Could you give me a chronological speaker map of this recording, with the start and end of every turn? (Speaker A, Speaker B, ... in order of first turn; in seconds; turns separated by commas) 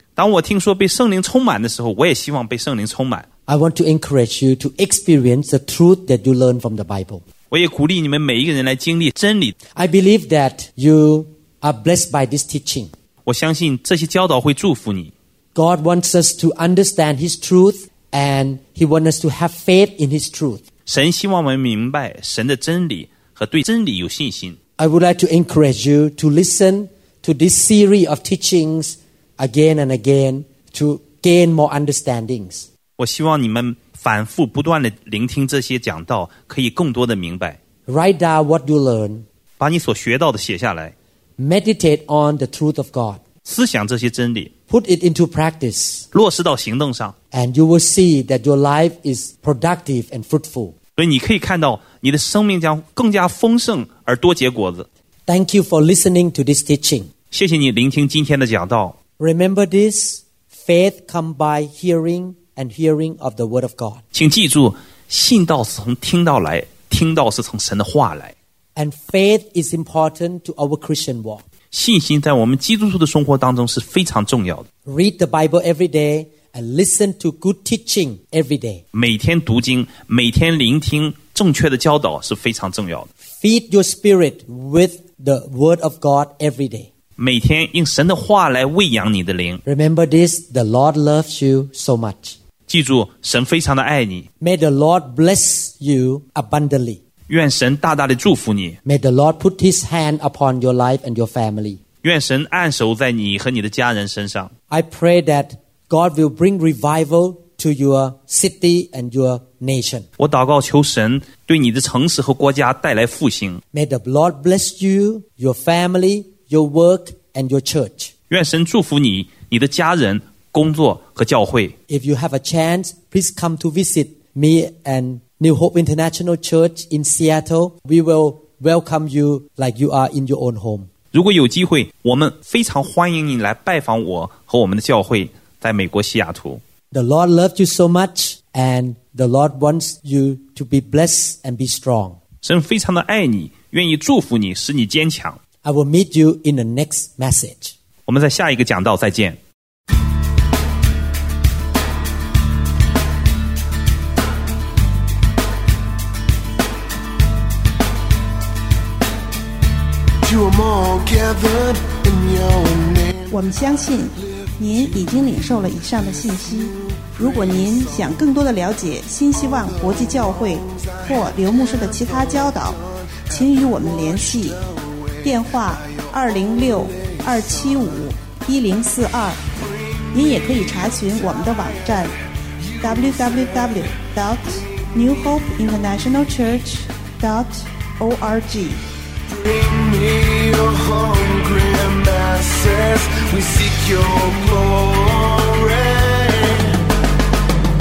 Speaker A: 0.2-3.2, Speaker B: 3.5-7.2, Speaker A: 7.5-9.5, Speaker B: 9.8-12.9, Speaker A: 13.2-15.1, Speaker B: 15.5-20.6, Speaker A: 20.9-24.6, Speaker B: 24.8-32.7, Speaker A: 33.0-37.6, Speaker B: 37.9-39.2, Speaker A: 39.6-40.9, Speaker B: 41.4-43.2, Speaker A: 43.4-44.5, Speaker B: 44.7-46.1, Speaker A: 46.1-47.1, Speaker B: 47.3-50.7, Speaker A: 51.0-54.9, Speaker B: 55.3-57.1, Speaker A: 57.3-59.0, Speaker B: 59.2-64.0, Speaker A: 64.1-68.3, Speaker B: 68.8-71.4, Speaker A: 71.7-74.7, Speaker B: 74.8-78.8, Speaker A: 78.9-83.1, Speaker B: 83.4-86.9, Speaker A: 87.2-89.6, Speaker B: 89.6-92.4, Speaker A: 92.7-94.3, Speaker B: 94.4-97.0, Speaker A: 97.3-98.8, Speaker B: 98.8-101.8, Speaker A: 102.0-104.5, Speaker B: 104.7-110.1, Speaker A: 110.2-113.6, Speaker B: 113.7-118.1, Speaker A: 118.3-121.7, Speaker B: 121.9-130.9, Speaker A: 131.1-136.6, Speaker B: 136.9-142.2, Speaker A: 142.4-145.4, Speaker B: 145.6-147.7, Speaker A: 148.1-149.4, Speaker C: 160.2-163.3, Speaker D: 163.3-174.6, Speaker C: 164.4-164.9, Speaker C: 167.2-168.1, Speaker C: 170.8-172.5, Speaker C: 173.6-177.6, Speaker D: 175.2-179.4, Speaker C: 179.6-180.4, Speaker D: 180.1-182.1, Speaker C: 182.6-183.8, Speaker D: 182.8-188.8, Speaker C: 184.6-184.8, Speaker C: 189.3-196.8